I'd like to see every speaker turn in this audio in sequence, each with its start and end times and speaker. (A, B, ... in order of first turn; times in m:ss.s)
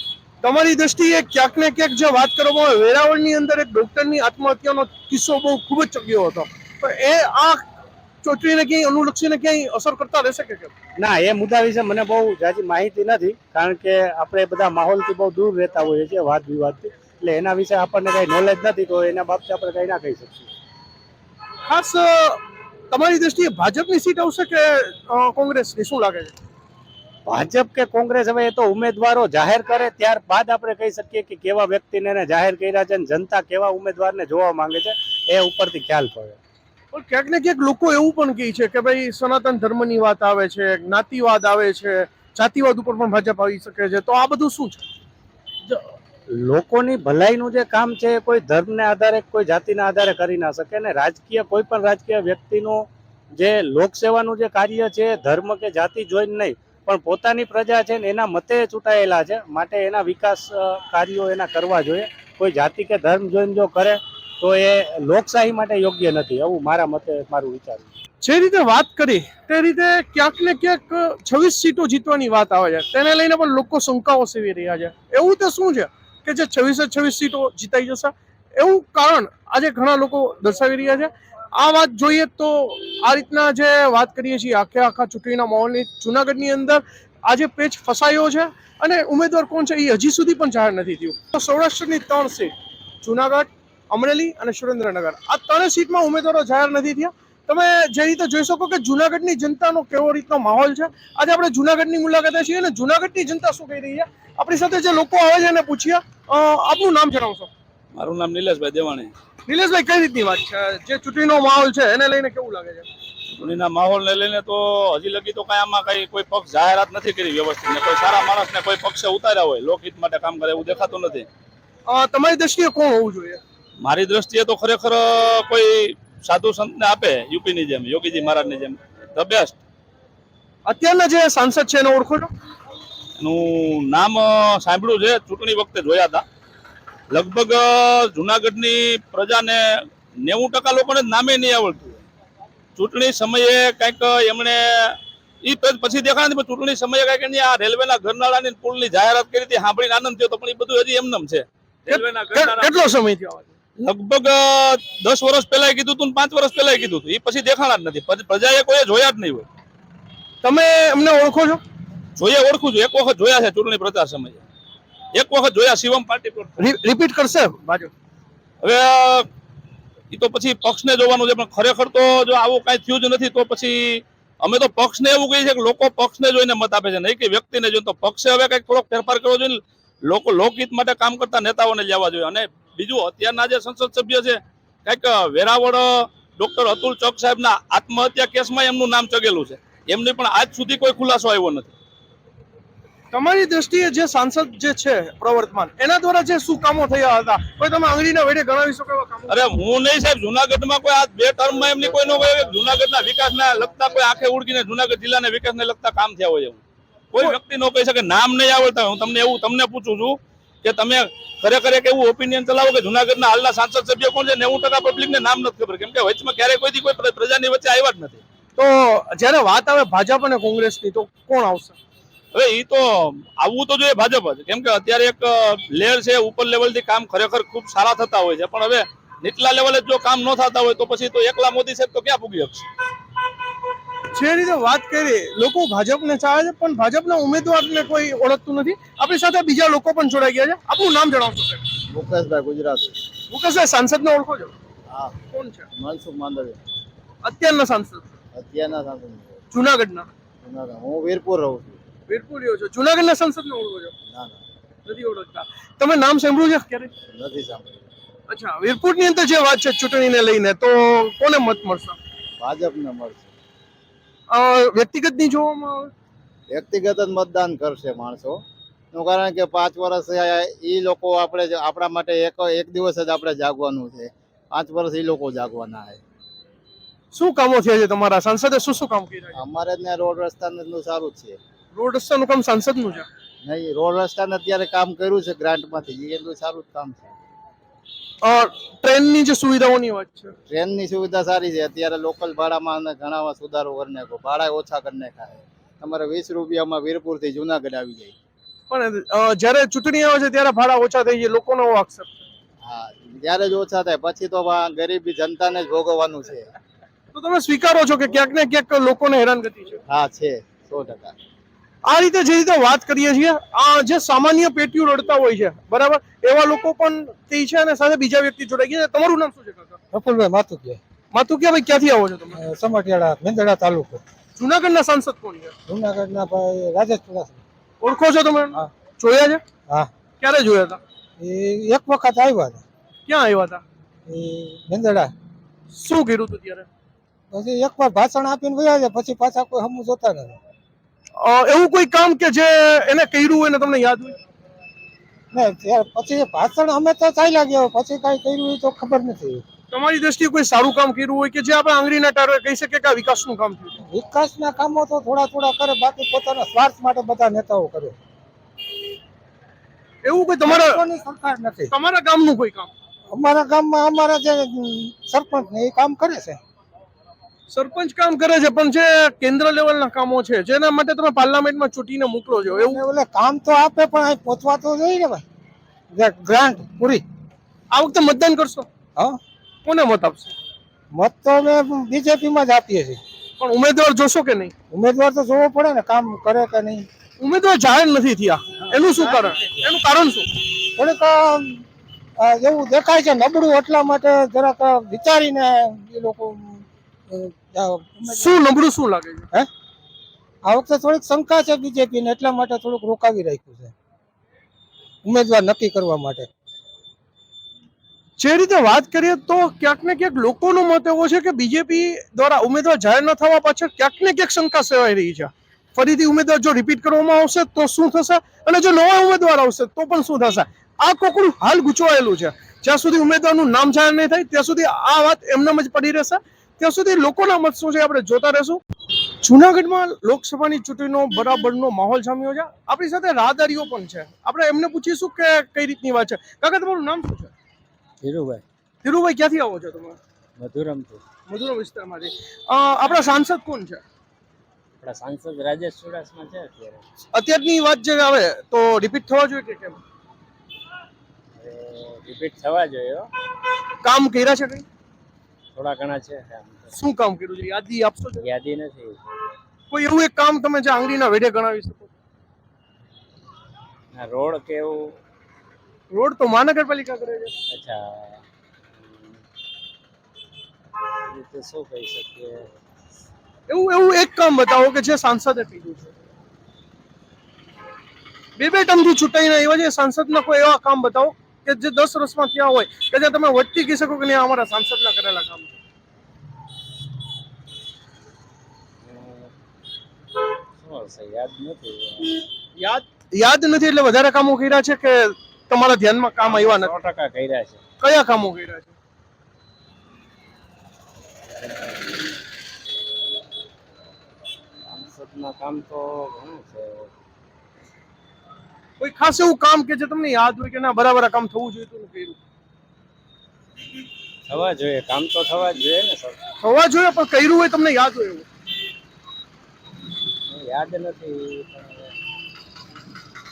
0:00.4-0:07.6 A
0:08.2-0:10.7 A
0:11.0-0:20.5 B
0:21.7-0:26.3 A
0:27.2-0:36.4 B
0:36.9-0:44.8 A
0:46.4-1:07.9 B
1:08.2-1:32.5 A
1:33.0-1:47.5 A
1:47.9-1:49.1 C
1:49.5-1:52.8 A
1:53.3-2:01.3 C
2:01.9-2:03.4 A
2:03.8-2:09.6 C
2:10.6-2:12.3 A
2:13.2-2:16.2 C
2:17.1-2:19.6 C
2:20.2-2:22.0 C
2:22.8-2:33.0 C
2:31.9-2:33.5 A
2:33.8-2:39.5 C
2:40.4-2:41.6 A
2:42.2-2:44.4 C
2:45.1-2:46.5 C
2:46.6-2:47.9 A
2:48.6-2:49.3 C
2:50.1-3:11.7 C
3:13.1-3:19.5 A
3:19.3-3:38.2 C
3:38.6-3:41.8 A
3:42.3-3:52.6 C
3:54.1-4:01.6 A
4:01.9-4:03.0 D
4:03.3-4:04.5 A
4:04.9-4:05.2 D
4:05.3-4:05.6 A
4:05.7-4:06.6 D
4:07.2-4:08.0 A
4:08.3-4:09.4 D
4:09.5-4:10.1 A
4:10.4-4:11.8 D
4:12.1-4:13.9 A
4:14.1-4:14.4 D
4:14.8-4:16.9 A
4:17.1-4:17.8 D
4:18.3-4:22.0 A
4:22.4-4:23.3 D
4:24.3-4:25.9 A
4:26.5-4:28.4 D
4:28.9-4:36.0 D
4:37.1-4:39.3 A
4:39.3-4:41.4 D
4:41.7-4:43.1 A
4:43.4-4:47.1 D
4:48.2-4:50.3 A
4:50.5-4:58.1 D
4:58.7-5:02.1 A
5:02.6-5:06.5 D
5:07.1-5:09.8 A
5:09.9-5:11.2 D
5:11.8-5:19.8 A
5:19.9-5:20.8 E
5:21.1-5:22.4 A
5:22.3-5:24.0 E
5:24.4-5:25.5 A
5:25.7-5:27.4 E
5:27.8-5:29.4 A
5:30.2-5:30.8 A
5:31.2-5:32.6 E
5:33.1-5:33.6 A
5:34.1-5:35.1 E
5:35.7-5:36.6 A
5:37.3-5:40.4 E
5:41.2-5:44.1 A
5:45.3-5:49.4 E
5:49.7-5:53.8 A
5:53.8-5:58.0 E
6:00.0-6:00.8 A
6:00.4-6:01.8 E
6:01.7-6:02.7 A
6:03.1-6:06.4 E
6:07.5-6:12.8 A
6:12.4-6:15.2 E
6:15.9-6:17.0 E
6:17.7-6:18.7 A
6:19.6-6:20.3 A
6:20.9-6:23.0 E
6:23.4-6:24.5 A
6:24.7-6:26.9 E
6:27.2-6:30.3 A
6:28.9-6:29.4 E
6:30.7-6:31.6 E
6:32.2-6:38.4 E
6:38.0-6:39.2 A
6:40.4-6:43.7 E
6:45.0-6:46.3 E
6:48.2-7:08.6 A
7:09.2-7:17.3 A
7:18.0-7:18.4 F
7:18.8-7:20.0 A
7:20.4-7:21.0 F
7:21.3-7:23.8 A
7:24.8-7:26.8 F
7:27.1-7:29.8 A
7:31.4-7:33.1 F
7:33.8-7:34.6 A
7:35.6-7:36.5 F
7:36.7-7:38.2 A
7:38.2-7:39.0 F
7:39.7-7:41.9 A
7:44.0-7:44.9 F
7:45.9-7:47.3 A
7:51.1-7:52.4 F
7:53.5-7:55.9 A
7:58.4-8:05.5 A
8:08.9-8:09.3 F
8:10.6-8:12.2 F
8:12.6-8:16.8 A
8:16.2-8:17.6 F
8:17.8-8:18.7 A
8:24.7-8:26.9 F
8:28.8-8:32.2 A
8:34.3-8:36.2 F
8:36.4-8:38.2 A
8:40.3-8:41.7 F